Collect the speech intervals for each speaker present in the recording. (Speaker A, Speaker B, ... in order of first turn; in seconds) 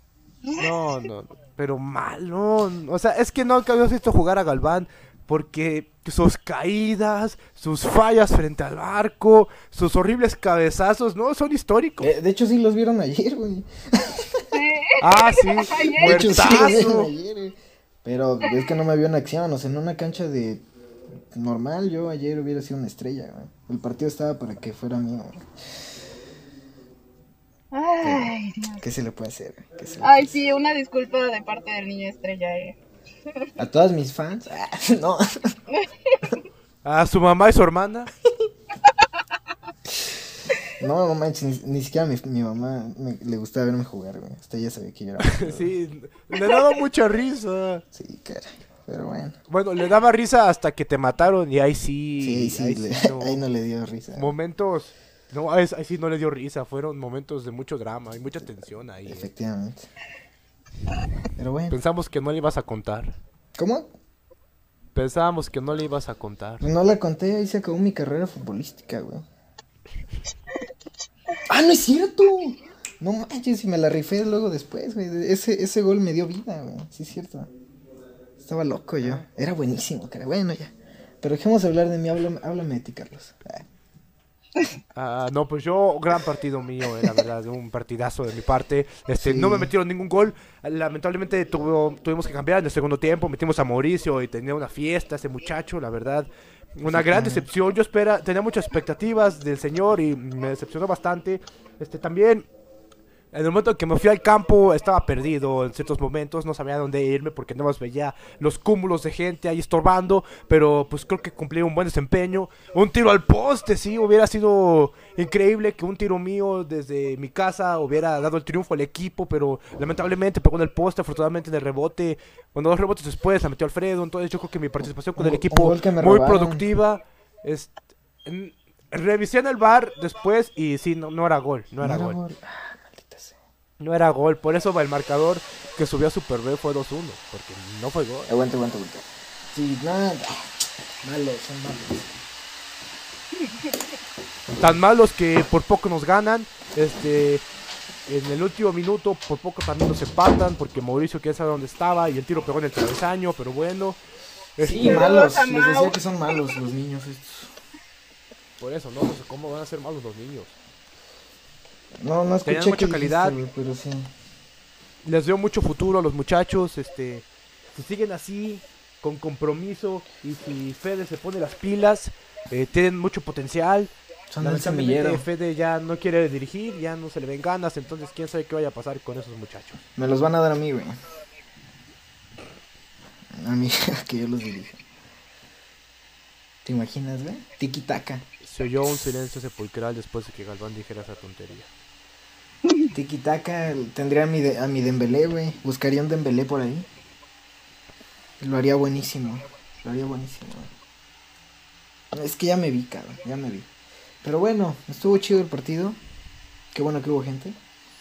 Speaker A: 0.6-12.1, 15.0-17.1, 36.8-38.1, 45.2-47.8, 49.5-53.4, 54.1-59.3, 61.7-63.2, 65.0-66.7, 85.0-102.5, 103.3-127.7, 128.2-132.2, 133.8-138.3, 144.6-147.4, 148.1-154.0, 154.6-155.1, 158.6-160.6, 162.5-163.4, 165.0-179.8, 188.4-191.7
Speaker B: 12.0-14.5, 16.0-20.6, 21.3-25.4, 28.0-30.3, 33.6-35.6, 40.8-45.7, 47.9-49.4, 52.2-54.3, 59.0-59.9, 61.4-61.8, 63.6-63.9, 66.6-69.2, 71.5-77.5, 78.4-83.6, 89.2-89.7, 96.9-97.5, 125.2-126.7, 131.8-133.4, 138.3-140.5, 141.0-142.1, 154.6-157.5, 162.0-164.1, 174.3-175.2, 180.0-181.0, 183.3-184.8, 186.7-188.2, 192.9-196.9, 198.4-200.7, 202.1-203.7, 204.2-206.0, 206.7-207.6
Speaker C: 14.5-16.8, 27.7-28.9, 30.0-32.8, 35.7-36.2, 154.7-156.6